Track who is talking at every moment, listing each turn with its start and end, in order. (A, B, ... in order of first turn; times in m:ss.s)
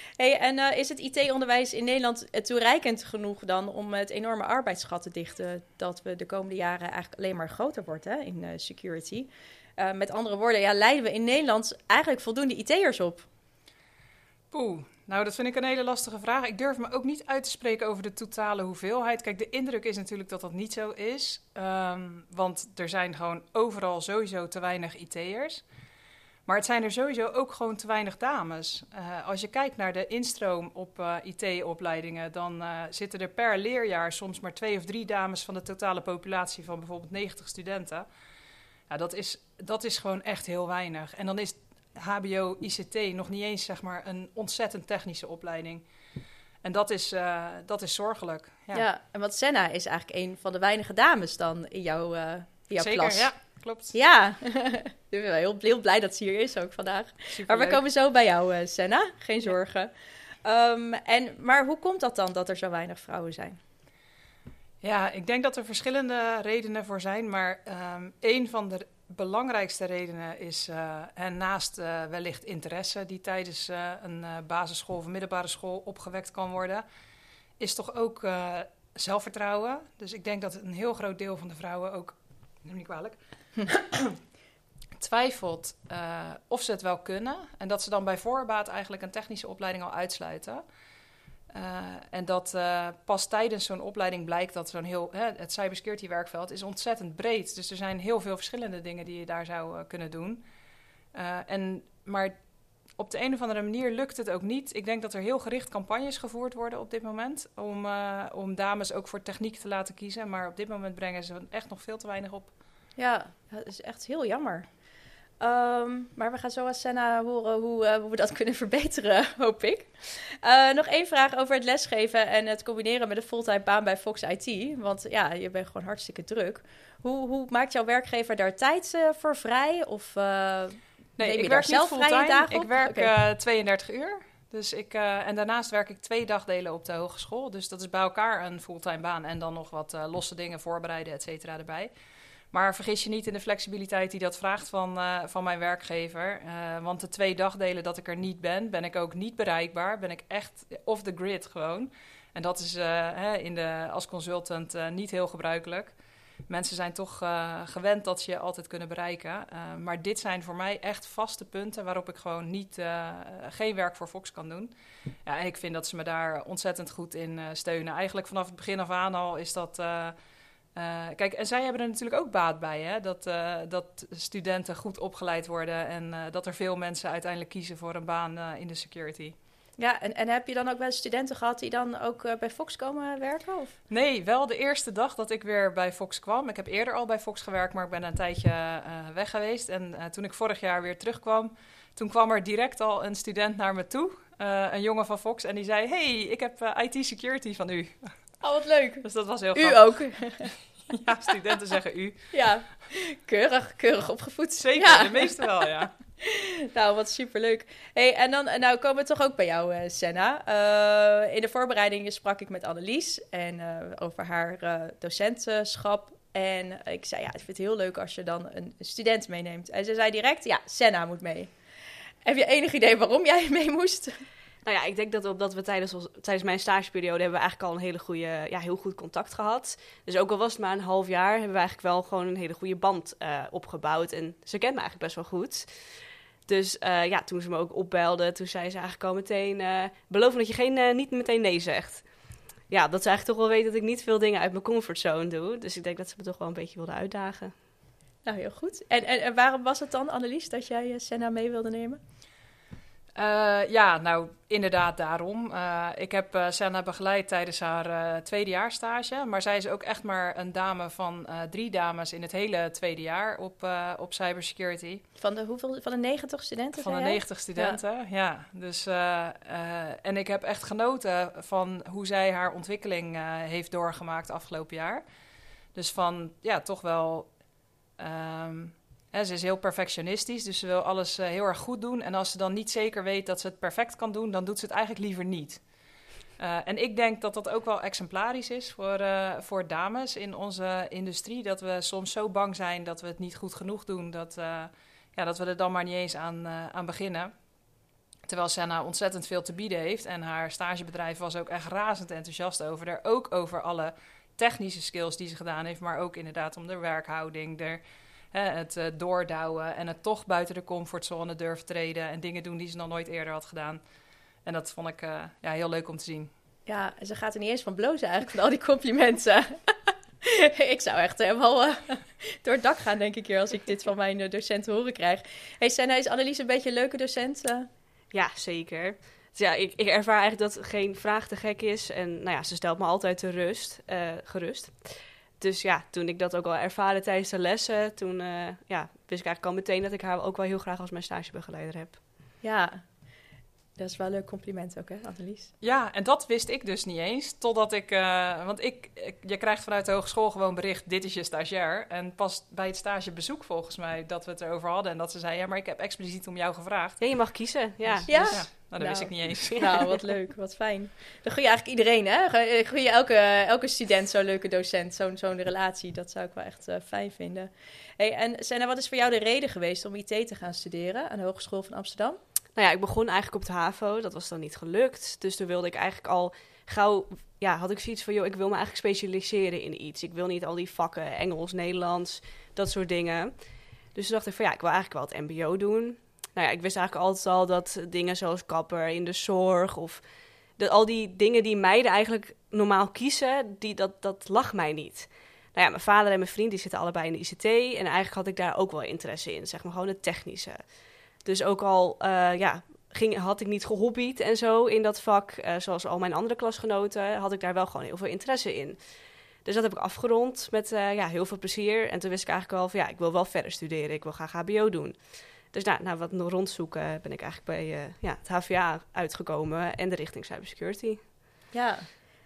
0:00.2-0:13.2 A
0:14.5-0:25.6 B
0:26.4-0:38.0 B
0:38.9-0:45.9 B
0:46.6-0:48.8 B
0:48.7-0:59.9 A
0:52.8-0:53.9 B
0:57.3-0:57.8 B
1:00.4-1:03.6 A
1:04.8-1:16.8 B
1:17.6-1:24.2 B
1:25.0-1:30.6 B
1:31.5-1:40.4 B
1:41.1-1:42.4 B
1:43.0-1:52.5 B
1:53.0-1:54.7 A
1:55.4-2:13.1 A
2:11.2-2:21.9 B
2:22.5-2:36.0 B
2:36.5-2:44.7 B
2:45.2-2:50.1 B
2:50.7-2:59.3 B
2:59.8-3:03.7 A
3:03.9-3:18.1 B
3:18.4-3:20.5 A
3:19.0-3:22.3 B
3:22.3-3:25.5 A
3:24.6-3:25.9 B
3:26.2-3:41.5 A
3:42.2-3:44.2 A
3:44.6-4:07.5 C
4:08.2-4:12.0 A
4:13.2-4:25.0 B
4:25.2-4:27.8 A
4:26.8-4:35.0 B
4:35.7-4:37.4 B
4:38.0-4:45.7 B
4:46.3-4:57.3 B
4:58.2-5:13.8 B
5:14.4-5:16.3 B
5:16.6-5:27.7 A
5:28.1-5:42.0 C
5:42.4-5:42.8 A
5:43.8-5:45.5 A
5:45.6-5:59.9 B
5:57.0-6:00.0 C
5:58.1-6:12.2 A
6:12.6-6:30.0 C
6:30.6-7:01.0 C
7:01.5-7:02.0 A